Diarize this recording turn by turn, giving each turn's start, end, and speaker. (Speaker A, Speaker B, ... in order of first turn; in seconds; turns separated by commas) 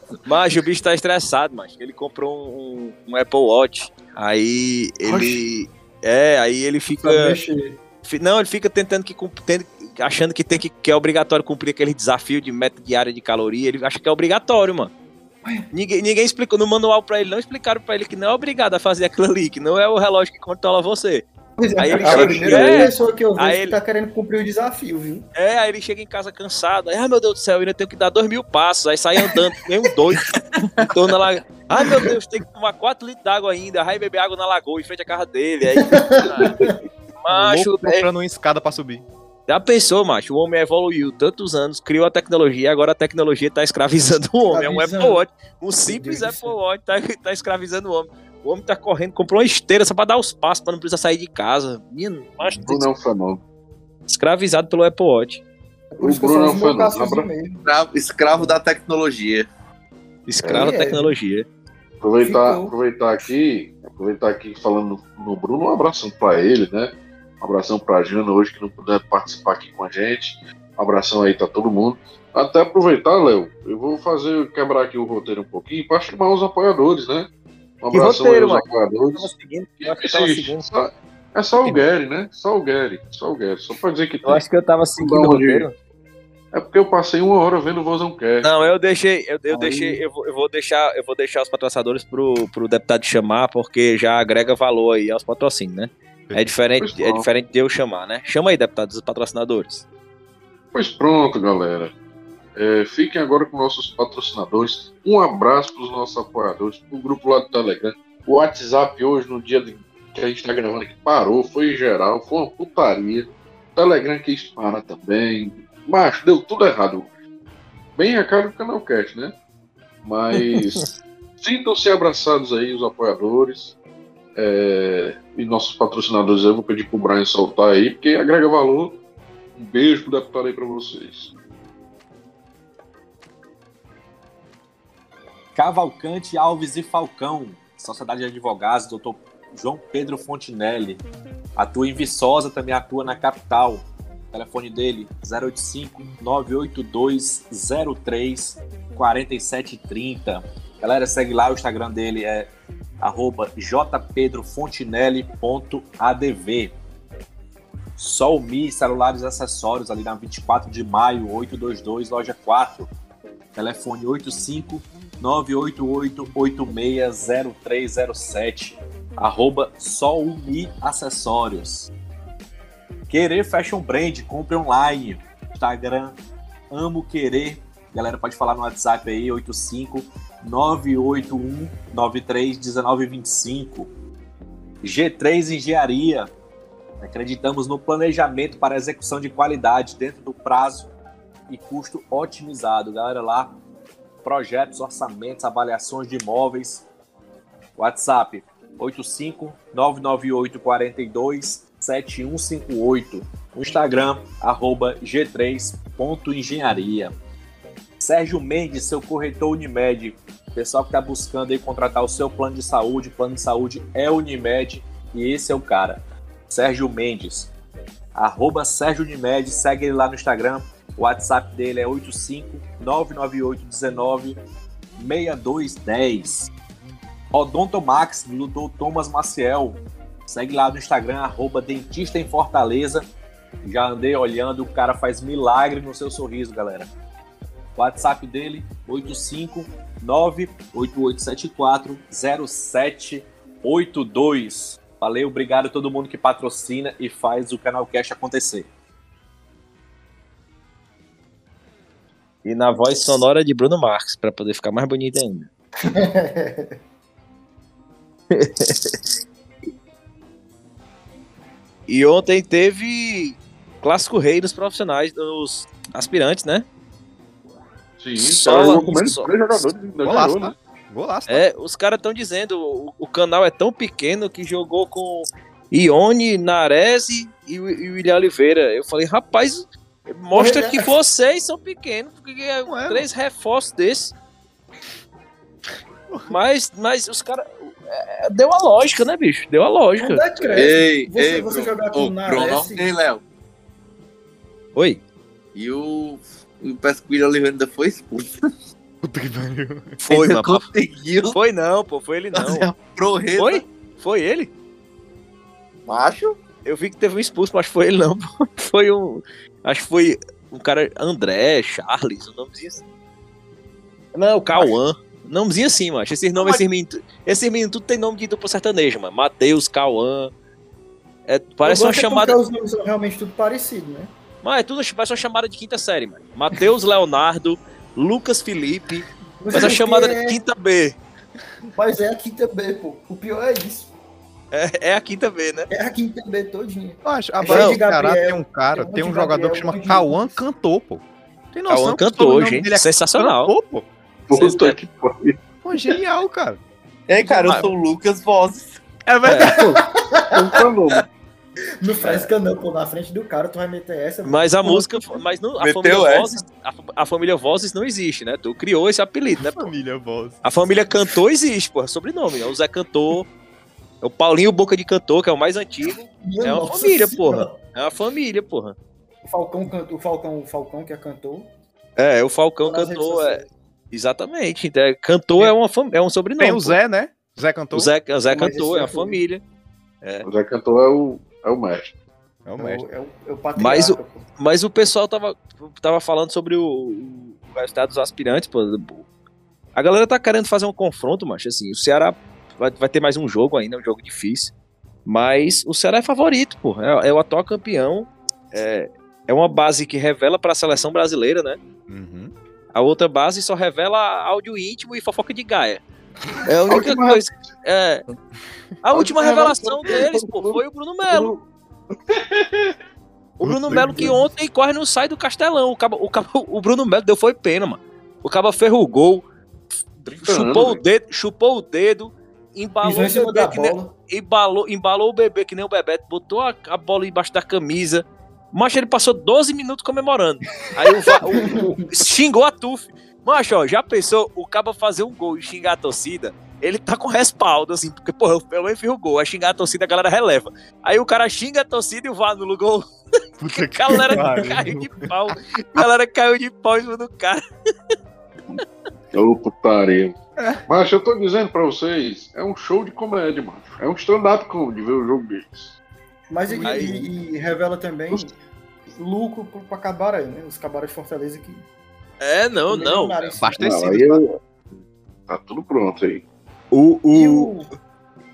Speaker A: 0.2-7.3, Speaker B: 7.0-7.8, Speaker A: 8.0-14.9, Speaker A: 15.7-21.3, Speaker B: 21.6-25.3, Speaker A: 21.8-23.8, Speaker C: 22.0-22.9, Speaker A: 25.4-36.6, Speaker B: 35.8-36.7, Speaker A: 37.2-38.1, Speaker D: 37.3-39.0, Speaker A: 39.5-52.9, Speaker B: 44.5-45.2, Speaker B: 45.9-46.6, Speaker C: 52.4-53.4, Speaker A: 54.1-55.4, Speaker B: 55.9-57.8, Speaker C: 56.0-57.3, Speaker E: 57.7-59.5, Speaker A: 60.3-61.5, Speaker B: 60.5-61.1, Speaker C: 62.0-77.3, Speaker B: 62.2-62.7, Speaker C: 77.8-84.4, Speaker A: 77.9-80.7, Speaker A: 84.2-85.8, Speaker C: 85.0-85.7, Speaker C: 86.5-88.5, Speaker A: 88.4-99.8, Speaker C: 89.5-90.0, Speaker C: 96.8-97.3, Speaker C: 100.7-101.9, Speaker C: 102.6-117.1, Speaker C: 118.0-119.3, Speaker C: 120.0-123.8, Speaker A: 120.3-120.8, Speaker C: 124.4-129.0, Speaker C: 129.6-131.3, Speaker F: 135.6-141.0, Speaker F: 141.6-152.5, Speaker F: 153.0-156.8, Speaker F: 158.0-162.9, Speaker F: 163.6-171.9, Speaker F: 173.1-176.2, Speaker F: 176.7-183.9, Speaker F: 184.8-186.3, Speaker F: 187.0-190.9, Speaker F: 191.5-193.6, Speaker F: 194.2-196.9, Speaker F: 197.8-207.1, Speaker F: 208.0-217.5, Speaker F: 218.2-224.4, Speaker F: 225.0-226.5, Speaker F: 227.3-233.1, Speaker F: 233.6-236.9, Speaker F: 237.8-248.7, Speaker A: 252.4-255.5, Speaker B: 255.9-256.7, Speaker A: 258.3-259.0, Speaker A: 261.9-266.7, Speaker C: 268.0-270.6, Speaker A: 268.2-269.4, Speaker D: 270.0-271.4, Speaker A: 271.3-284.1, Speaker B: 280.3-280.9, Speaker D: 282.7-283.1, Speaker A: 286.3-290.7, Speaker B: 290.0-292.9, Speaker E: 290.6-293.2, Speaker A: 294.8-295.0, Speaker E: 295.6-298.4, Speaker D: 299.0-300.0, Speaker A: 300.0-300.7, Speaker E: 300.1-301.4, Speaker A: 301.2-302.7, Speaker E: 302.3-303.6, Speaker A: 303.4-304.5, Speaker E: 305.9-306.4, Speaker A: 306.6-312.8, Speaker A: 314.1-320.3, Speaker A: 321.3-322.4, Speaker B: 321.6-324.1, Speaker A: 324.4-331.0, Speaker B: 329.4-330.4, Speaker B: 331.7-333.9, Speaker A: 334.5-335.7, Speaker B: 335.7-340.4, Speaker D: 337.0-343.9, Speaker A: 337.5-337.8, Speaker A: 341.7-343.5, Speaker C: 344.3-345.4, Speaker A: 344.3-344.8, Speaker D: 345.6-346.6, Speaker E: 347.1-348.8, Speaker B: 347.3-347.6, Speaker A: 347.4-347.7, Speaker D: 349.1-349.8, Speaker A: 349.2-349.6, Speaker B: 349.4-350.6, Speaker C: 350.3-351.1, Speaker B: 351.8-355.2, Speaker A: 354.2-359.7, Speaker E: 355.6-356.4, Speaker D: 359.4-360.4, Speaker A: 360.4-363.3, Speaker A: 364.0-368.8, Speaker B: 366.2-367.6, Speaker B: 369.3-371.5, Speaker A: 372.0-376.8, Speaker B: 372.6-373.5, Speaker D: 376.4-377.9, Speaker A: 377.7-379.4, Speaker B: 378.3-379.2, Speaker C: 380.2-381.9, Speaker D: 382.5-382.9, Speaker B: 382.6-384.3, Speaker A: 383.6-389.1, Speaker A: 389.8-394.5, Speaker A: 395.1-401.6, Speaker D: 401.9-402.3, Speaker A: 402.7-405.8, Speaker A: 406.4-408.1, Speaker C: 406.7-407.2, Speaker A: 408.8-411.3, Speaker C: 408.9-411.4, Speaker C: 412.1-412.7, Speaker A: 413.4-419.2, Speaker D: 413.4-414.2, Speaker B: 413.7-414.3, Speaker A: 419.8-442.9, Speaker C: 420.2-420.8, Speaker B: 422.8-423.9, Speaker B: 431.1-431.8, Speaker D: 443.4-445.1, Speaker A: 443.5-447.4, Speaker B: 444.1-444.3, Speaker C: 449.1-455.7, Speaker D: 450.4-450.6, Speaker B: 456.3-458.3, Speaker D: 456.5-457.1, Speaker A: 456.6-457.1, Speaker B: 459.0-461.6, Speaker A: 462.2-463.4, Speaker B: 462.6-463.8, Speaker D: 463.4-464.2, Speaker C: 463.6-466.2, Speaker A: 466.7-467.5, Speaker B: 467.1-467.7